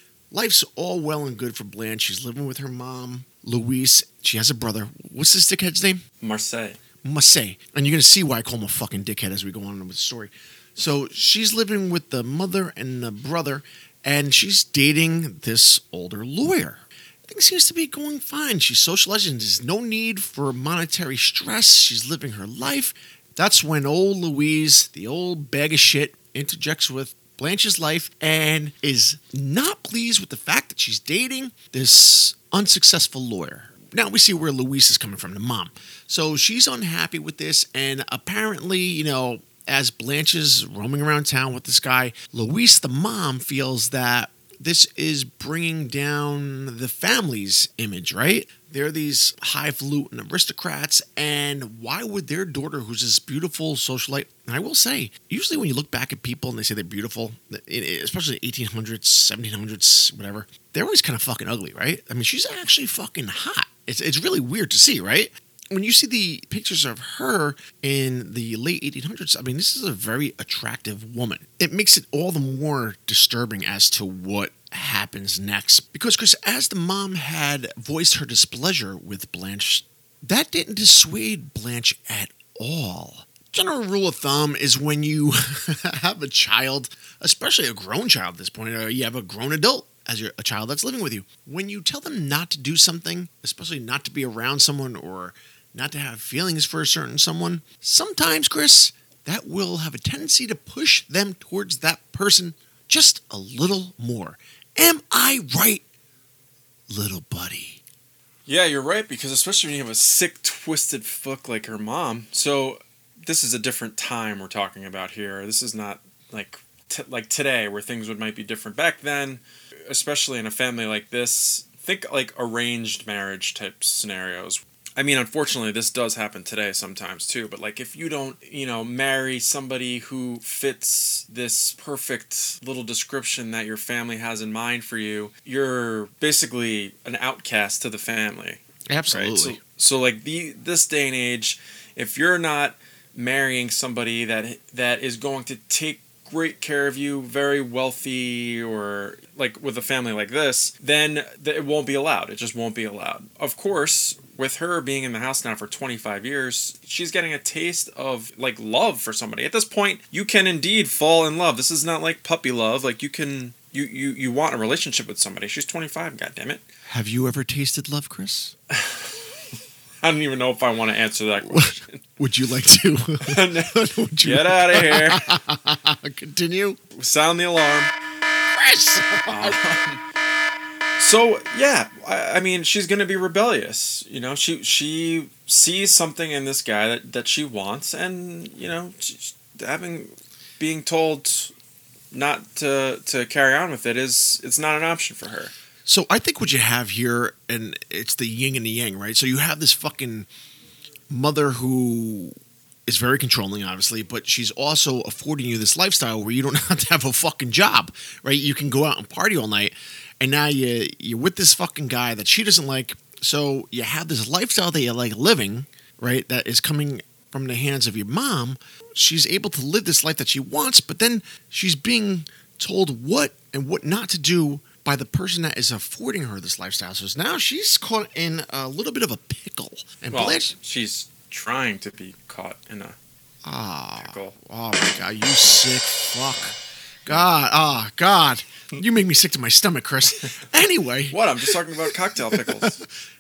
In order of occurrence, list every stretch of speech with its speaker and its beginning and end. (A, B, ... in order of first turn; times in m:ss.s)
0:00.3-0:06.0 A
0:06.2-0:06.8 B
0:07.0-1:45.8 A
1:46.9-1:47.8 A
1:48.5-2:46.6 B
2:18.9-2:19.6 A
2:46.9-2:48.5 A
2:48.7-2:49.2 B
2:50.0-2:52.0 B
2:51.5-2:56.8 A
2:53.2-2:55.3 B
2:56.9-2:57.9 B
2:58.5-2:59.6 A
2:59.2-3:00.0 B
3:01.0-3:11.5 B
3:12.1-3:15.5 B
3:15.9-3:20.3 A
3:21.1-3:22.3 A
3:22.9-3:50.6 A
3:50.1-3:53.0 B
3:53.4-3:56.6 A
3:54.0-3:54.4 B
3:57.1-4:01.8 A
4:01.1-4:02.8 B
4:02.3-4:02.9 A